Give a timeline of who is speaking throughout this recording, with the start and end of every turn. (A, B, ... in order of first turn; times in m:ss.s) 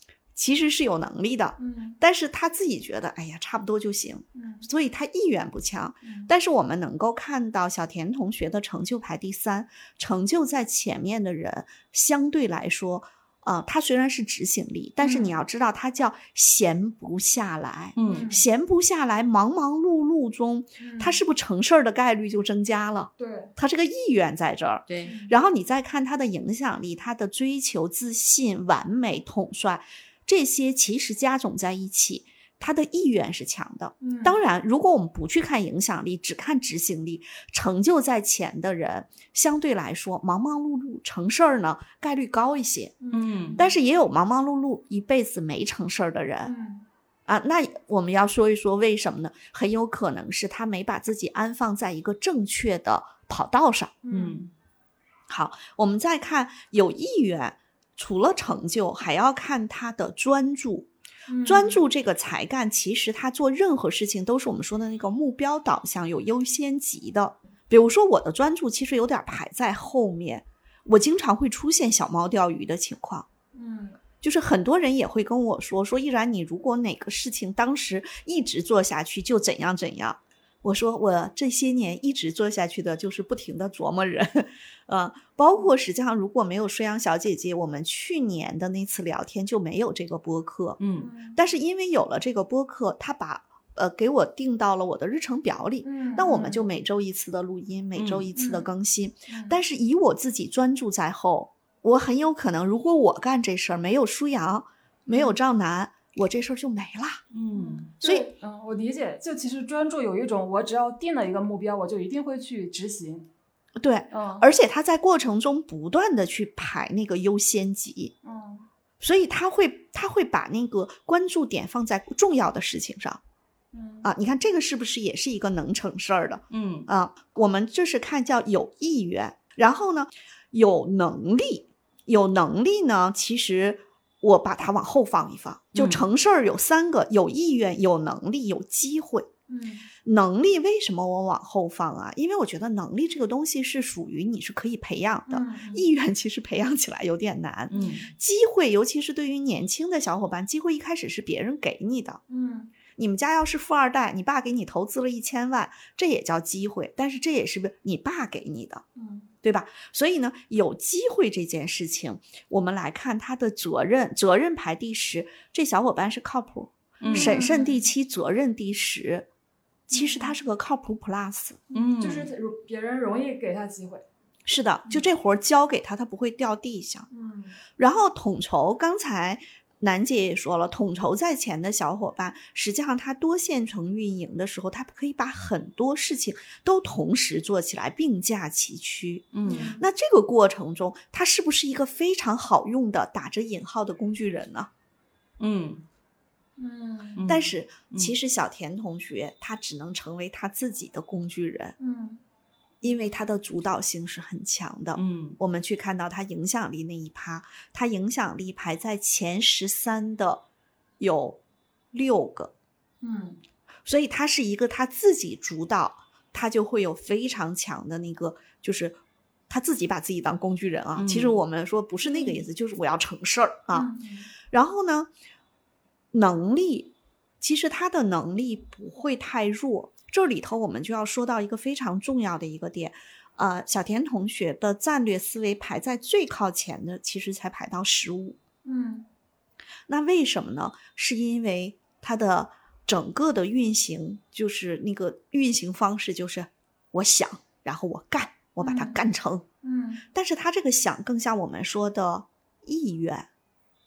0:00.3-0:43.0 A
0:01.6-0:02.0 B
0:04.4-0:04.7 B
0:06.0-0:06.3 B
0:15.0-0:15.3 B
0:18.0-0:18.3 C
0:18.1-0:18.5 B
0:20.8-0:21.2 B
0:23.2-0:23.5 B
0:24.9-0:25.1 C
0:25.0-0:25.4 B
0:34.0-0:34.4 B
0:43.0-0:43.8 B
0:43.1-0:43.6 C
0:43.6-0:46.5 A
0:46.4-0:46.9 B
0:47.3-0:54.0 A
0:54.0-0:54.5 B
0:54.1-0:54.5 C
0:55.3-1:00.9 A
1:01.3-1:01.8 B
1:01.4-1:13.3 A
1:13.5-1:14.0 B
1:14.2-1:30.8 A
1:30.8-1:31.1 C
1:31.0-1:31.4 B
1:31.3-1:47.2 A
1:35.8-1:36.7 B
1:38.0-1:38.3 C
1:38.4-1:38.7 B
1:39.3-1:39.6 B
1:45.1-1:45.4 B
1:47.3-1:47.9 C
1:47.5-1:53.3 B
1:48.0-1:48.3 A
1:53.8-1:58.1 A
1:54.1-1:54.5 B
1:58.2-1:58.7 B
1:59.0-2:03.2 A
2:03.7-2:04.1 B
2:04.0-2:19.3 A
2:06.5-2:06.9 C
2:15.7-2:16.0 C
2:19.5-2:19.9 B
2:20.0-2:32.2 A
2:25.3-2:25.9 B
2:27.7-2:28.0 C
2:27.7-2:28.1 B
2:32.3-2:32.7 B
2:33.0-2:38.8 A
2:39.0-2:39.3 B
2:39.4-2:49.3 A
2:47.0-2:47.4 C
2:47.1-2:47.8 B
2:49.9-2:51.6 A
2:49.9-2:50.4 B
2:51.7-2:54.0 B
2:51.7-2:52.3 C
2:54.5-2:57.1 A
2:57.1-2:57.6 B
2:57.8-3:14.7 A
3:09.3-3:09.7 C
3:09.4-3:09.8 B
3:15.4-3:15.8 C
3:16.6-3:17.3 B
3:17.2-3:18.1 C
3:17.3-3:21.8 A
3:21.8-3:22.2 B
3:22.8-3:30.4 A
3:25.0-3:25.4 C
3:31.0-3:31.4 A
3:31.9-3:32.5 A
3:33.0-3:33.4 B
3:33.8-3:43.9 A
3:41.0-3:41.4 C
3:42.0-3:42.5 B
3:43.7-3:44.3 B
3:44.5-3:45.1 A
3:46.1-3:58.4 A
3:58.6-3:59.1 B
3:59.9-4:09.5 A
4:08.6-4:09.0 B
4:09.6-4:10.0 B
4:10.1-4:13.3 A